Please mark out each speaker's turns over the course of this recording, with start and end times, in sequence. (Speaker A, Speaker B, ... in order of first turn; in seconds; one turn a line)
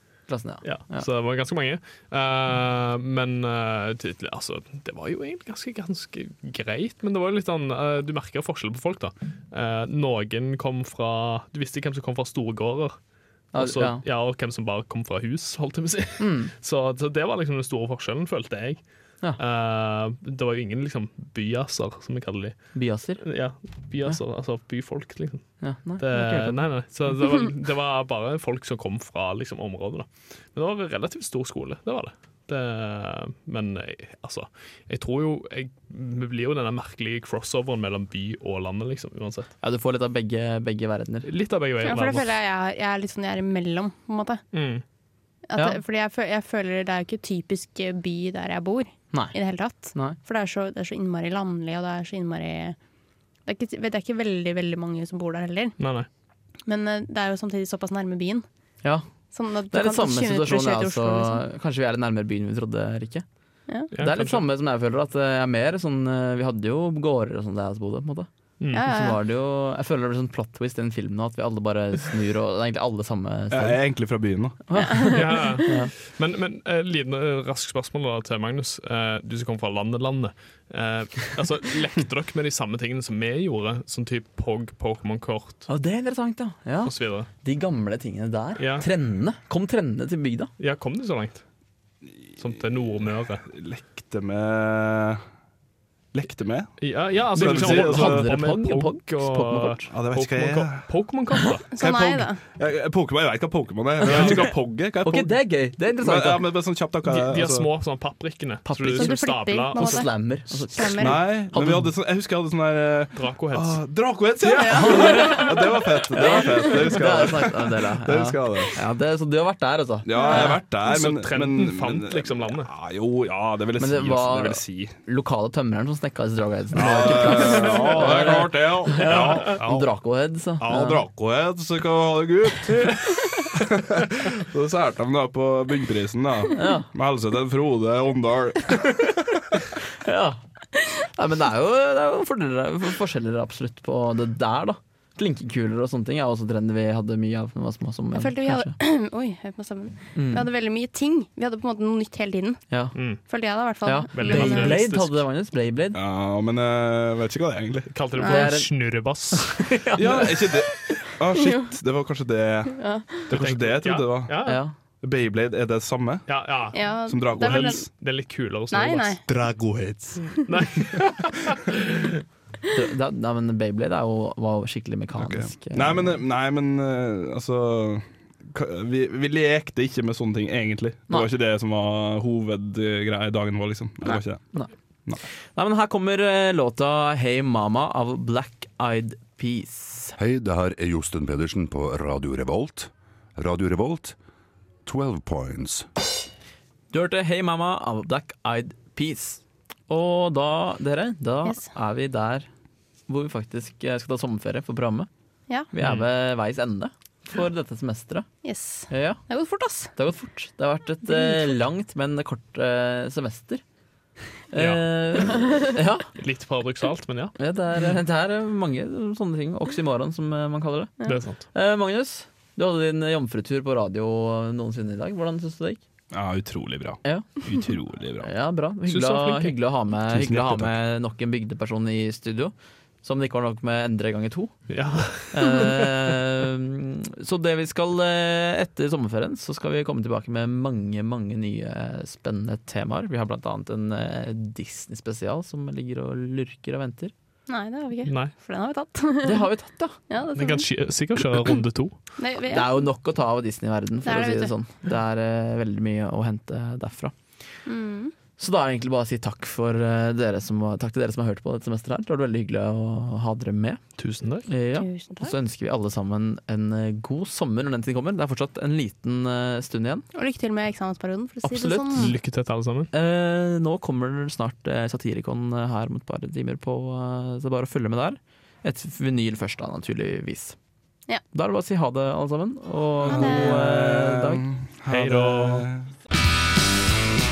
Speaker A: 0.3-1.1
Speaker B: 0.6-12.9
Speaker A: 13.5-14.0
Speaker B: 13.5-18.8
Speaker A: 16.2-16.5
Speaker B: 19.4-22.6
Speaker A: 22.7-23.2
Speaker B: 23.2-39.5
Speaker A: 25.6-26.6
Speaker A: 39.6-41.3
Speaker B: 41.2-42.3
Speaker C: 41.8-44.4
Speaker B: 44.5-44.8
Speaker C: 45.5-52.8
Speaker C: 53.5-55.8
Speaker B: 55.8-56.1
Speaker C: 56.6-58.4
Speaker C: 59.3-61.4
Speaker A: 59.7-63.2
Speaker B: 63.9-64.4
Speaker A: 64.0-68.3
Speaker C: 68.7-69.2
Speaker A: 68.8-73.8
Speaker D: 73.5-74.6
Speaker A: 74.7-75.9
Speaker C: 75.1-75.4
Speaker B: 75.1-85.7
Speaker A: 85.7-90.5
Speaker B: 86.8-87.3
Speaker B: 88.6-88.9
Speaker B: 90.6-91.4
Speaker B: 92.4-93.5
Speaker D: 93.5-95.2
Speaker D: 96.1-98.3
Speaker B: 96.8-101.7
Speaker A: 97.3-99.8
Speaker D: 99.9-100.9
Speaker D: 101.7-105.3
Speaker C: 101.7-102.4
Speaker B: 104.0-104.4
Speaker A: 105.0-106.4
Speaker D: 106.0-107.7
Speaker B: 107.1-110.1
Speaker A: 108.6-111.9
Speaker C: 108.9-111.2
Speaker D: 111.0-118.8
Speaker B: 113.1-113.8
Speaker C: 114.4-115.3
Speaker A: 114.6-120.5
Speaker D: 120.0-124.9
Speaker C: 120.2-120.5
Speaker B: 120.8-122.7
Speaker A: 123.8-131.0
Speaker D: 126.7-129.6
Speaker B: 127.1-128.4
Speaker B: 129.0-129.9
Speaker B: 130.6-130.9
Speaker D: 130.6-139.6
Speaker A: 136.6-136.9
Speaker A: 140.0-140.4
Speaker A: 141.0-148.7
Speaker C: 148.1-152.6
Speaker A: 150.1-150.5
Speaker A: 152.7-152.9
Speaker B: 152.9-153.2
Speaker C: 153.3-154.8
Speaker A: 153.8-156.0
Speaker B: 154.1-155.2
Speaker D: 155.9-157.9
Speaker B: 157.9-159.7
Speaker C: 158.2-158.5
Speaker A: 158.2-158.7
Speaker A: 159.4-160.6
Speaker D: 159.9-164.4
Speaker C: 162.8-163.2
Speaker B: 163.3-164.6
Speaker A: 164.4-164.7
Speaker D: 165.0-166.3
Speaker B: 166.3-169.2
Speaker C: 166.7-167.9
Speaker D: 167.1-167.9
Speaker C: 168.7-169.2
Speaker D: 169.3-170.2
Speaker B: 170.4-172.2
Speaker A: 172.7-176.2
Speaker D: 175.2-184.4
Speaker A: 185.5-190.2
Speaker E: 190.2-194.2
Speaker E: 194.8-195.8
Speaker A: 196.9-202.5
Speaker A: 203.1-205.1
Speaker A: 205.7-208.3
Speaker C: 208.4-209.9
Speaker A: 208.9-209.2
Speaker A: 209.9-213.6
Speaker A: 214.5-216.1
Speaker B: 214.5-214.8
Speaker B: 216.1-217.3
Speaker A: 217.4-220.9
Speaker B: 221.0-221.4
Speaker A: 221.5-225.8
Speaker D: 226.1-228.3
Speaker A: 228.2-232.5
Speaker B: 228.9-229.6
Speaker D: 230.1-230.8
Speaker A: 233.0-234.5
Speaker B: 234.7-236.1
Speaker A: 235.3-247.1
Speaker C: 247.5-249.5
Speaker B: 248.1-248.3
Speaker A: 249.2-250.0
Speaker C: 250.1-250.7
Speaker B: 250.3-252.0
Speaker C: 251.3-251.6
Speaker C: 252.2-252.9
Speaker A: 252.5-257.1
Speaker C: 254.0-254.5
Speaker C: 257.6-258.1
Speaker A: 258.4-263.8
Speaker B: 264.0-264.5
Speaker A: 264.5-270.0
Speaker C: 264.7-265.3
Speaker C: 270.1-272.1
Speaker A: 271.4-272.1
Speaker B: 271.9-272.9
Speaker A: 272.9-280.6
Speaker A: 281.3-284.4
Speaker D: 283.0-285.8
Speaker C: 283.1-283.6
Speaker B: 284.9-285.7